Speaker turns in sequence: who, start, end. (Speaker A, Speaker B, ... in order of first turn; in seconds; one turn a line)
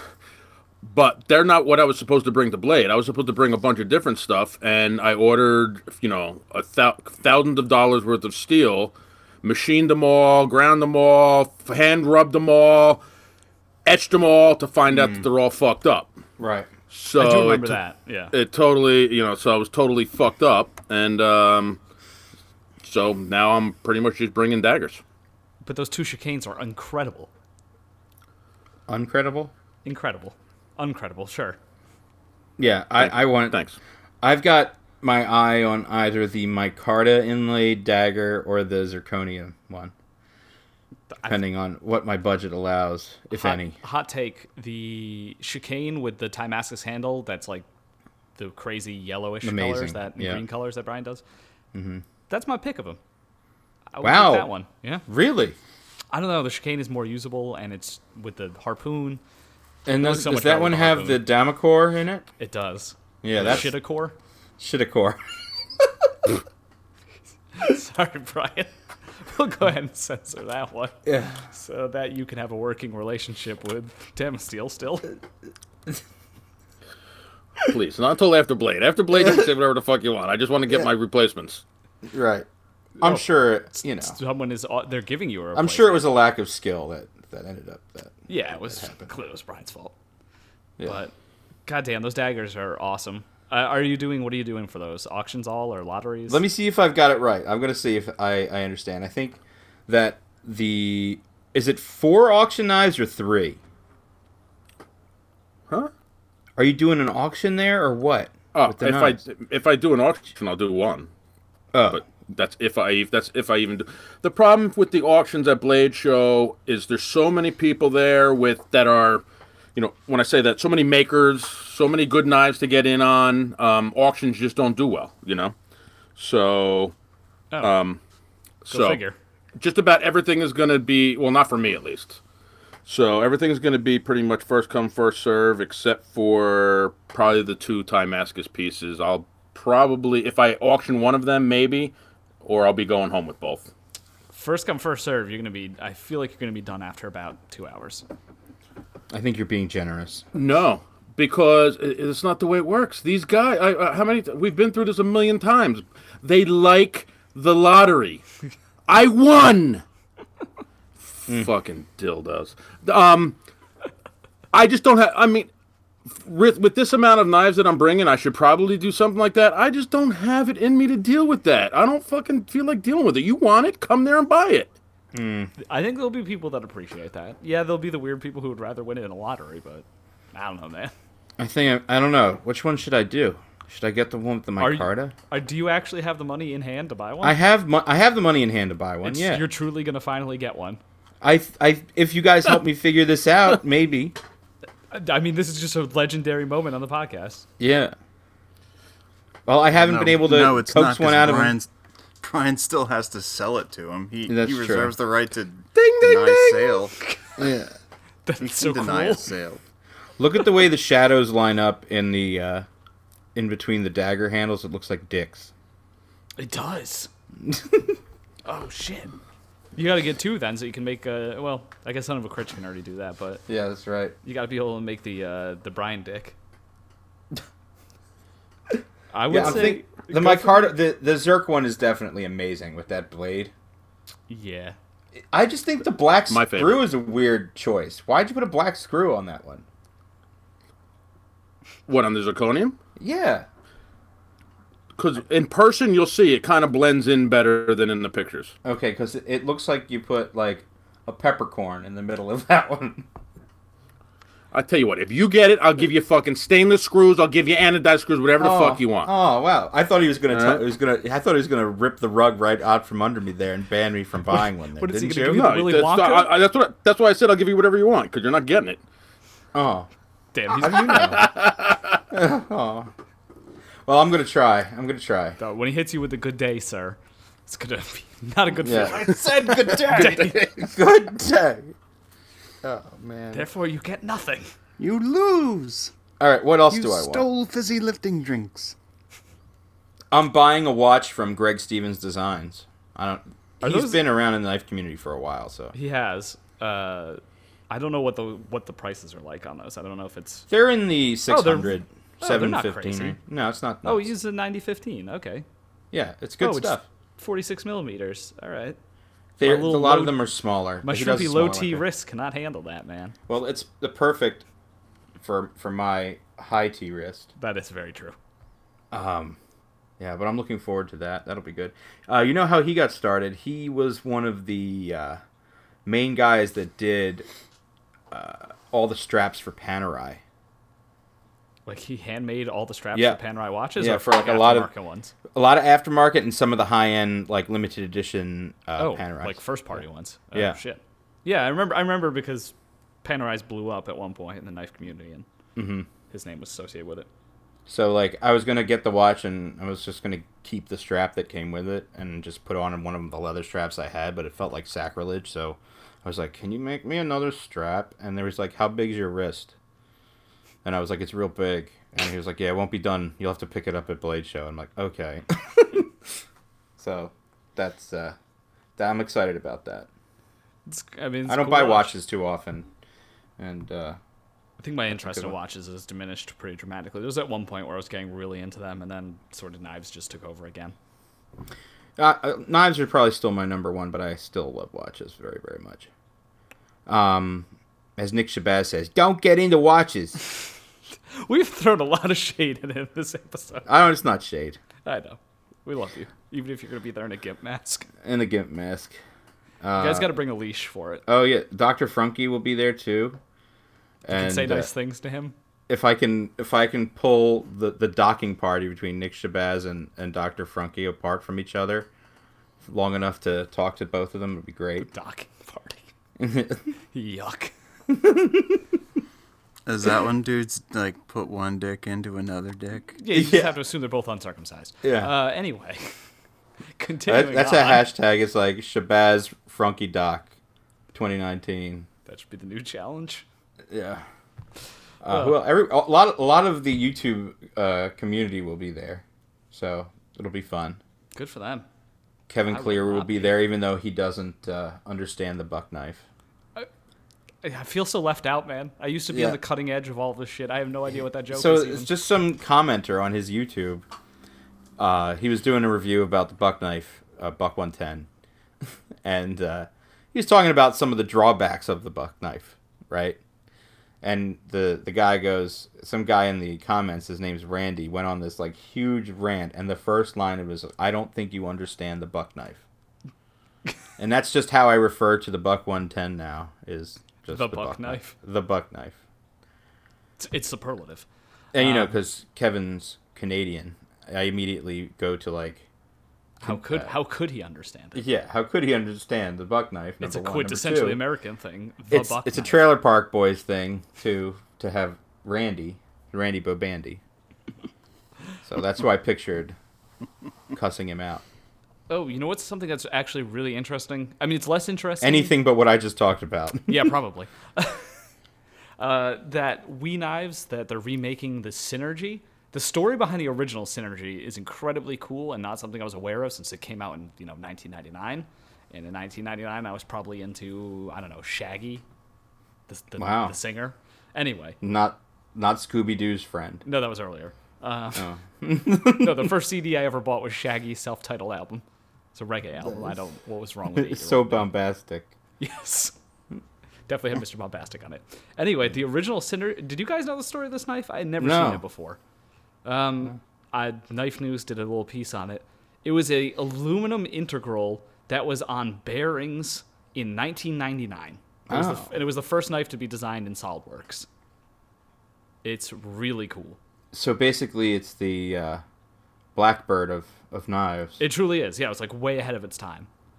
Speaker A: 0.8-13.0
Speaker A: 13.8-16.1
Speaker B: 14.9-15.2
Speaker B: 16.4-16.7
Speaker A: 16.9-17.8
Speaker C: 17.1-18.3
Speaker A: 18.3-21.8
Speaker A: 22.8-25.0
Speaker C: 25.6-27.3
Speaker B: 28.9-29.5
Speaker C: 29.9-31.6
Speaker B: 32.6-33.6
Speaker A: 33.0-33.8
Speaker B: 34.2-39.9
Speaker C: 41.1-41.4
Speaker B: 41.3-43.8
Speaker C: 43.3-47.7
Speaker C: 48.4-51.2
Speaker B: 49.4-50.4
Speaker B: 51.7-52.0
Speaker C: 52.3-53.0
Speaker C: 53.9-55.1
Speaker B: 54.0-54.5
Speaker B: 55.1-55.6
Speaker C: 56.1-59.2
Speaker B: 59.9-62.3
Speaker C: 60.0-61.3
Speaker C: 62.4-64.2
Speaker B: 63.2-63.7
Speaker B: 64.6-65.2
Speaker C: 67.6-75.1
Speaker B: 71.1-71.4
Speaker A: 77.6-81.6
Speaker B: 82.1-82.5
Speaker C: 83.0-86.1
Speaker B: 83.0-84.2
Speaker B: 85.5-89.1
Speaker C: 88.3-89.9
Speaker C: 90.8-91.1
Speaker C: 91.7-96.4
Speaker B: 96.3-103.6
Speaker B: 106.6-109.2
Speaker A: 108.5-111.1
Speaker B: 111.7-112.0
Speaker A: 111.9-119.2
Speaker A: 119.8-125.5
Speaker A: 126.2-126.9
Speaker C: 127.5-127.8
Speaker A: 127.6-128.0
Speaker A: 128.7-129.0
Speaker C: 128.7-129.2
Speaker A: 129.6-132.2
Speaker A: 132.9-143.7
Speaker C: 144.3-148.1
Speaker B: 149.1-150.2
Speaker A: 150.3-158.2
Speaker A: 158.9-159.8
Speaker A: 161.1-163.4
Speaker A: 164.5-165.5
Speaker A: 166.1-174.7
Speaker B: 175.1-175.5
Speaker C: 175.7-180.9
Speaker B: 181.4-185.1
Speaker C: 184.6-187.4
Speaker B: 187.2-189.5
Speaker C: 189.0-190.8
Speaker B: 191.2-194.2
Speaker C: 194.9-197.5
Speaker B: 197.6-197.9
Speaker B: 199.5-201.6
Speaker D: 199.7-201.7
Speaker D: 202.2-207.0
Speaker B: 204.3-204.9
Speaker A: 205.8-206.8
Speaker B: 207.4-207.7
Speaker C: 208.3-209.3
Speaker D: 208.4-209.6
Speaker B: 210.2-212.7
Speaker B: 213.3-215.5
Speaker C: 216.4-217.1
Speaker B: 217.5-217.9
Speaker C: 218.4-219.2
Speaker C: 219.8-223.4
Speaker B: 223.5-224.2
Speaker C: 224.2-226.4
Speaker C: 229.1-230.8
Speaker B: 229.3-233.5
Speaker C: 234.3-234.8
Speaker B: 235.3-239.7
Speaker A: 236.3-236.8
Speaker A: 241.9-242.8
Speaker B: 243.0-243.5
Speaker A: 245.0-248.5
Speaker B: 248.7-253.1
Speaker A: 254.5-259.1
Speaker B: 258.4-265.4
Speaker A: 260.3-260.6
Speaker C: 264.3-266.3
Speaker A: 265.3-268.8
Speaker B: 269.5-269.9
Speaker C: 270.3-271.3
Speaker B: 270.6-271.3
Speaker A: 270.7-271.9
Speaker B: 272.1-272.9
Speaker B: 273.9-275.4
Speaker C: 275.4-280.5
Speaker B: 278.6-281.7
Speaker D: 278.9-280.4
Speaker B: 282.6-283.4
Speaker C: 283.3-284.5
Speaker D: 284.8-285.9
Speaker B: 286.2-287.3
Speaker D: 286.7-288.8
Speaker B: 290.1-295.7
Speaker C: 293.6-294.1
Speaker C: 295.7-300.5
Speaker B: 300.5-304.1
Speaker C: 301.3-303.2
Speaker C: 303.9-305.4
Speaker B: 305.9-306.9
Speaker C: 306.4-308.8
Speaker B: 309.4-311.9
Speaker C: 309.4-310.3
Speaker C: 310.8-313.1
Speaker B: 313.3-314.5
Speaker B: 315.2-317.3
Speaker C: 317.4-318.2
Speaker B: 318.9-319.4
Speaker B: 320.0-325.2
Speaker B: 325.9-327.3
Speaker B: 328.1-330.2
Speaker C: 331.7-335.1
Speaker B: 333.8-334.7
Speaker B: 335.3-339.8
Speaker C: 338.8-345.3
Speaker B: 345.6-345.9
Speaker C: 346.1-347.1
Speaker B: 347.7-359.5
Speaker B: 360.6-365.8
Speaker B: 366.8-368.2
Speaker B: 368.8-369.9
Speaker C: 370.7-372.0
Speaker B: 371.3-372.7
Speaker B: 373.4-374.0
Speaker C: 374.6-380.8
Speaker B: 374.9-375.3
Speaker B: 382.0-385.9
Speaker B: 386.9-390.2
Speaker C: 391.1-393.7
Speaker B: 393.7-394.6
Speaker C: 394.9-397.9
Speaker B: 398.0-399.0
Speaker B: 399.6-400.1
Speaker C: 399.8-401.0
Speaker B: 401.1-403.2
Speaker B: 404.1-404.7
Speaker C: 404.1-405.3
Speaker B: 405.7-411.9
Speaker B: 412.6-414.9
Speaker C: 414.9-415.8
Speaker B: 416.2-416.7
Speaker C: 416.9-417.5
Speaker B: 417.9-418.6
Speaker D: 419.7-423.0
Speaker C: 423.0-425.9
Speaker B: 423.1-423.6
Speaker B: 424.8-425.1
Speaker C: 426.8-427.9
Speaker B: 427.1-430.3
Speaker B: 430.9-431.9
Speaker C: 432.1-433.2
Speaker B: 433.7-434.0
Speaker B: 435.0-440.8
Speaker C: 435.1-435.4
Speaker C: 441.1-441.7
Speaker B: 442.3-446.1
Speaker C: 442.5-443.4
Speaker C: 447.4-451.9
Speaker B: 449.1-449.4
Speaker B: 451.3-453.8
Speaker B: 454.8-458.1
Speaker B: 459.0-463.2
Speaker B: 464.0-472.6
Speaker B: 474.0-479.0
Speaker C: 477.3-478.1
Speaker C: 480.2-482.0
Speaker B: 481.5-485.6
Speaker C: 486.4-488.1
Speaker B: 486.4-486.9
Speaker B: 487.9-491.0
Speaker C: 490.0-492.8
Speaker B: 491.9-497.0
Speaker B: 498.4-499.6
Speaker B: 500.5-501.2
Speaker C: 501.9-505.4
Speaker B: 505.0-506.9
Speaker C: 506.7-507.9
Speaker C: 508.8-521.8
Speaker C: 522.7-524.6
Speaker B: 523.0-523.4
Speaker B: 524.6-526.6
Speaker C: 526.6-528.0
Speaker B: 528.0-529.3
Speaker C: 529.0-531.6
Speaker C: 532.1-534.5
Speaker B: 532.6-533.0
Speaker B: 533.7-535.1
Speaker C: 535.4-536.0
Speaker C: 536.9-542.0
Speaker B: 541.2-541.6
Speaker C: 542.6-554.1
Speaker B: 551.5-551.9
Speaker C: 555.4-556.6
Speaker B: 556.9-558.6
Speaker B: 559.4-561.0
Speaker C: 561.0-562.9